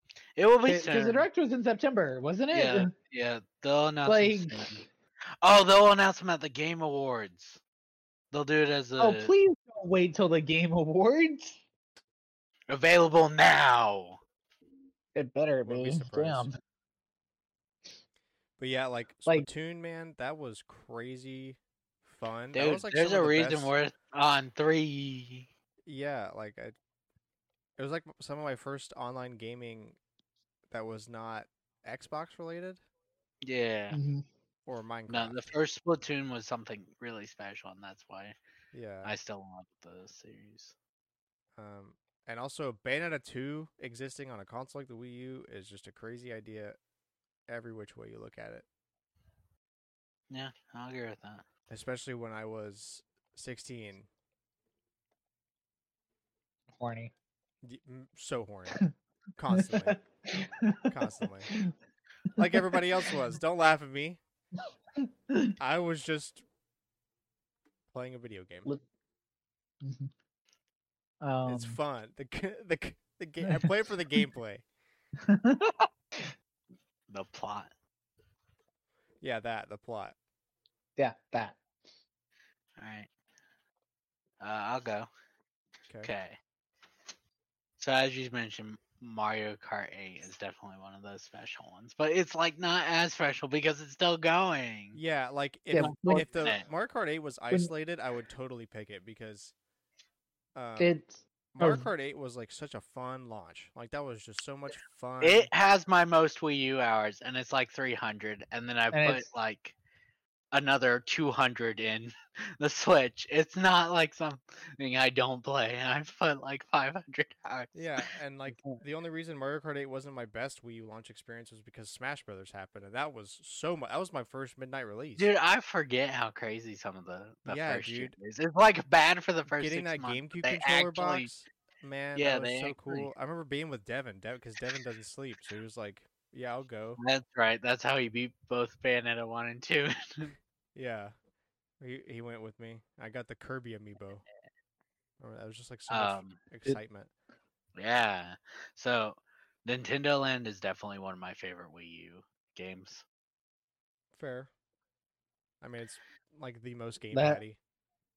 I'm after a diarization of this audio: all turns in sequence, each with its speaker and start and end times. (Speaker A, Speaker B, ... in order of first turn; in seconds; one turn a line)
Speaker A: 0.4-1.3
Speaker B: 0.7-2.9
Speaker A: 2.5-4.8
Speaker B: 4.0-4.9
Speaker A: 5.4-7.6
Speaker A: 8.3-9.3
Speaker B: 9.0-11.6
Speaker A: 12.7-14.2
Speaker B: 15.2-16.6
Speaker C: 15.7-16.5
Speaker C: 18.6-23.7
Speaker A: 22.5-25.5
Speaker C: 25.9-26.8
Speaker C: 27.8-30.0
Speaker C: 30.7-32.8
Speaker A: 33.4-34.0
Speaker B: 33.9-34.2
Speaker C: 34.7-35.5
Speaker A: 35.1-38.4
Speaker C: 38.7-39.1
Speaker A: 39.0-40.8
Speaker C: 41.6-46.8
Speaker C: 47.5-48.7
Speaker A: 50.3-51.4
Speaker C: 51.7-54.1
Speaker B: 56.8-57.1
Speaker C: 57.6-58.9
Speaker C: 59.4-60.0
Speaker B: 59.5-60.9
Speaker C: 60.9-61.5
Speaker B: 62.4-62.8
Speaker C: 62.4-64.2
Speaker C: 65.6-66.5
Speaker C: 67.9-68.7
Speaker B: 69.8-70.1
Speaker B: 71.2-71.8
Speaker C: 71.5-74.7
Speaker B: 73.4-73.7
Speaker B: 75.2-75.9
Speaker A: 77.1-77.7
Speaker C: 79.2-80.2
Speaker B: 81.0-81.6
Speaker A: 82.8-83.1
Speaker A: 84.4-85.1
Speaker A: 86.0-86.4
Speaker A: 87.8-95.0
Speaker C: 94.9-99.5
Speaker B: 95.7-96.3
Speaker A: 95.8-96.7
Speaker C: 100.5-101.0
Speaker B: 100.8-101.9
Speaker C: 101.5-105.5
Speaker A: 105.2-109.8
Speaker B: 108.9-109.3
Speaker A: 110.5-118.1
Speaker C: 117.7-125.3
Speaker A: 125.2-131.3
Speaker C: 127.5-128.2
Speaker C: 129.5-137.0
Speaker A: 132.2-133.1
Speaker A: 137.0-140.3
Speaker C: 140.8-141.2
Speaker C: 141.8-144.2
Speaker C: 145.2-147.1
Speaker A: 145.9-146.4
Speaker A: 147.8-153.1
Speaker C: 154.1-154.5
Speaker C: 155.6-157.6
Speaker B: 157.1-157.4